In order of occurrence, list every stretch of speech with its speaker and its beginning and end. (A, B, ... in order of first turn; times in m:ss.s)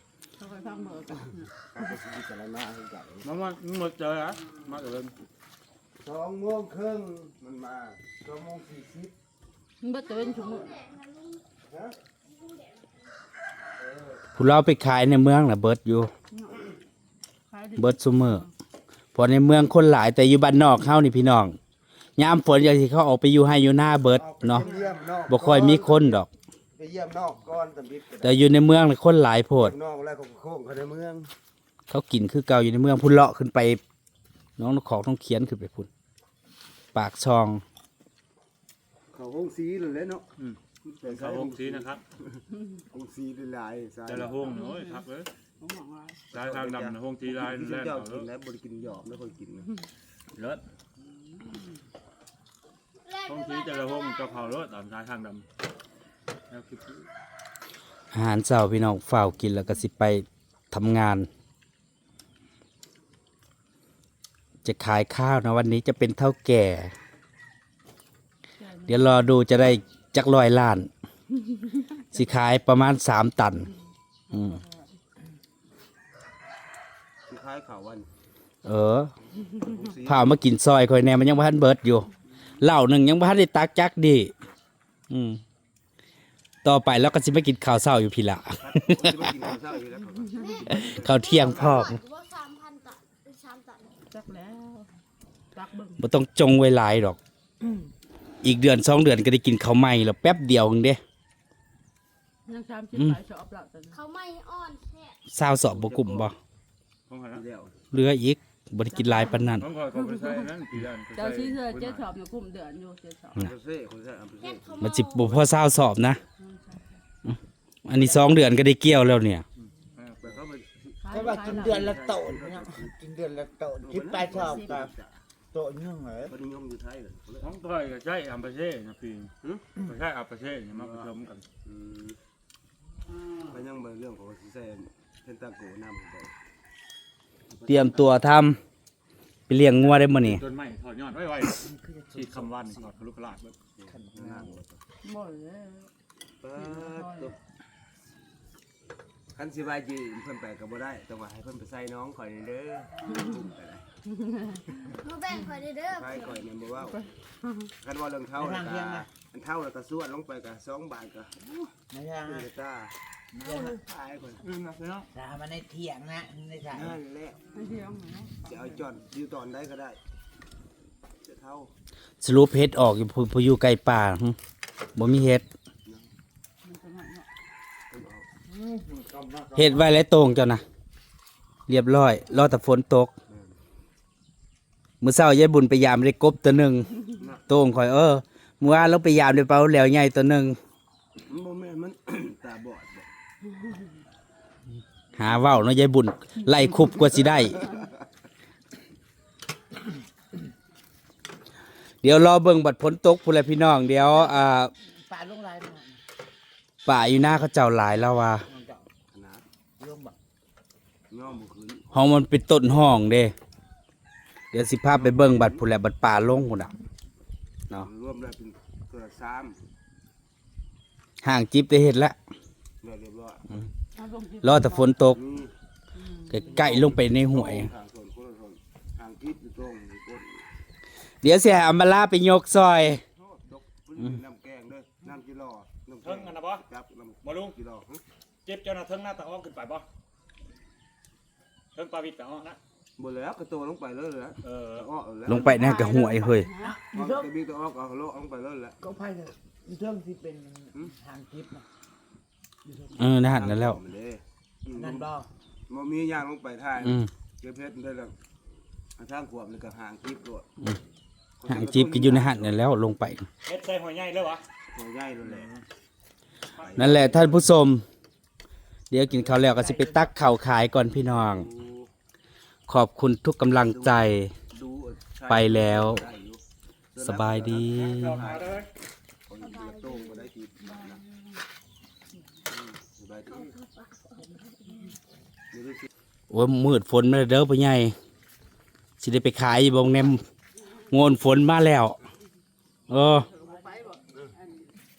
0:00.4-0:01.5 A
0:01.7-0:03.3 B
0:03.2-0:05.1 C
0:06.0-0:09.1 B
0:09.8-0:10.8 A
0:10.2-0:11.4 D
0:11.6-0:12.0 B
0:12.3-0:13.0 D
0:13.8-0:14.2 B
0:14.4-0:16.1 E
0:16.3-0:16.6 A
0:17.5-0:18.5 A
0:17.8-0:18.5 E
0:19.1-0:21.6 E
0:22.2-0:24.7 E
0:24.1-0:28.4 B
0:25.3-0:26.3 E
0:28.2-0:29.8 E
0:29.6-0:31.3 B
0:31.9-0:33.8 E
0:34.6-0:35.9 E
0:36.9-0:37.6 E
0:39.1-0:40.3 B
0:40.4-0:42.0 C
0:40.8-0:44.6 B
0:44.0-0:45.3 C
0:44.5-0:45.0 A
0:45.6-0:46.2 A
0:46.3-0:49.7 B
0:46.3-0:48.3 C
0:50.3-0:50.6 C
0:53.1-0:54.5 D
0:53.2-0:55.5 C
0:56.5-0:57.1 C
0:58.1-1:01.3 E
1:04.6-1:06.9 E
1:08.6-1:09.2 A
1:08.9-1:10.9 E
1:12.1-1:13.7 E
1:14.3-1:14.9 A
1:14.3-1:14.6 E
1:17.3-1:18.1 B
1:18.6-1:19.1 E
1:19.5-1:20.4 B
1:20.0-1:22.1 E
1:22.6-1:24.3 E
1:25.1-1:25.4 E
1:26.6-1:29.3 E
1:28.6-1:31.8 B
1:30.4-1:34.0 D
1:30.7-1:32.0 E
1:34.1-1:34.9 A
1:35.5-1:36.0 A
1:36.0-1:37.2 E
1:38.4-1:41.0 E
1:42.5-1:44.0 A
1:43.9-1:45.2 D
1:45.3-1:46.4 E
1:45.7-1:46.3 B
1:47.1-1:47.4 C
1:47.3-1:47.8 B
1:47.9-1:49.6 E
1:48.9-1:50.4 A
1:49.6-1:52.0 C
1:51.1-1:53.5 A
1:53.4-1:54.9 B
1:54.4-1:55.3 D
1:54.8-1:56.2 E
1:56.4-1:57.0 A
1:57.8-1:59.4 E
1:59.6-2:00.4 C
2:00.2-2:03.0 B
2:01.0-2:01.9 A
2:01.1-2:04.9 F
2:03.8-2:05.2 B
2:04.4-2:04.8 A
2:05.5-2:06.3 F
2:06.3-2:07.5 B
2:07.4-2:11.4 C
2:09.4-2:09.8 B
2:10.8-2:11.1 B
2:11.6-2:12.2 B
2:13.5-2:16.3 B
2:17.5-2:18.1 B
2:17.7-2:18.6 E
2:19.5-2:20.4 E
2:19.8-2:23.6 C
2:21.6-2:22.9 F
2:23.8-2:24.8 B
2:23.9-2:24.6 F
2:25.0-2:25.9 A
2:26.4-2:27.4 B
2:26.6-2:27.3 A
2:29.3-2:33.9 B
2:34.2-2:34.7 A
2:34.9-2:36.4 D
2:35.9-2:37.1 B
2:37.4-2:37.7 A
2:37.8-2:44.5 B
2:38.4-2:39.1 F
2:41.9-2:42.5 F
2:43.3-2:43.7 C
2:44.4-2:45.1 C
2:45.1-2:47.0 F
2:46.7-2:47.4 B
2:47.5-2:48.4 A
2:48.4-2:50.0 B
2:51.2-2:51.7 B
2:52.2-2:54.4 E
2:55.0-2:55.5 E
2:55.8-2:56.1 B
2:56.6-2:57.3 A
2:57.9-2:58.3 B
2:58.8-2:59.9 C
2:59.6-3:00.6 E
3:01.7-3:03.1 E
3:03.3-3:03.6 B
3:05.0-3:06.9 E
3:07.2-3:07.4 B
3:07.5-3:10.6 E
3:11.3-3:13.1 B
3:15.1-3:17.6 E
3:22.0-3:24.7 E
3:24.1-3:24.5 F
3:25.0-3:26.0 F
3:26.8-3:28.5 E
3:28.5-3:28.9 F
3:29.1-3:29.4 B
3:29.8-3:30.1 F
3:31.1-3:32.0 B
3:31.9-3:33.3 E
3:34.5-3:36.7 E
3:34.9-3:35.6 B
3:37.7-3:39.7 B
3:41.2-3:42.2 E
3:42.8-3:43.5 B
3:44.0-3:44.9 A
3:44.4-3:45.2 E
3:45.1-3:45.5 B
3:46.0-3:46.4 A
3:46.3-3:47.7 E
3:46.5-3:50.5 B
3:51.2-3:53.0 E
3:53.1-3:58.0 B
3:56.0-3:56.6 C
3:57.2-3:57.6 C
3:58.5-3:59.9 C
4:01.7-4:02.6 C
4:03.0-4:06.0 B
4:04.4-4:04.9 C
4:05.2-4:06.5 E
4:05.3-4:06.8 A
4:06.6-4:07.3 F
4:06.9-4:08.8 B
4:08.8-4:11.6 F
4:12.6-4:13.2 F
4:12.9-4:13.8 E
4:13.2-4:15.1 B
4:14.7-4:15.2 F
4:15.7-4:18.1 B
4:16.8-4:17.1 E
4:19.0-4:20.5 B
4:21.4-4:22.6 B
4:21.5-4:23.3 E
4:23.4-4:24.4 C
4:24.7-4:25.5 B
4:25.2-4:25.6 C
4:26.6-4:27.4 C
4:26.6-4:27.4 B
4:26.8-4:27.8 E
4:28.9-4:31.5 E
4:29.1-4:29.5 B
4:29.6-4:30.1 F
4:31.1-4:31.9 B
4:32.7-4:34.3 E
4:33.6-4:36.4 B
4:35.3-4:36.1 E
4:36.9-4:38.7 B
4:37.0-4:38.2 E
4:37.9-4:38.7 C
4:39.2-4:41.0 B
4:39.4-4:40.2 D
4:40.6-4:41.2 A
4:42.5-4:43.5 B
4:43.3-4:44.2 D
4:45.5-4:45.9 B
4:46.3-4:47.9 E
4:49.0-4:50.2 E
4:50.9-4:52.0 E
4:52.9-4:53.3 E
4:53.3-4:54.7 A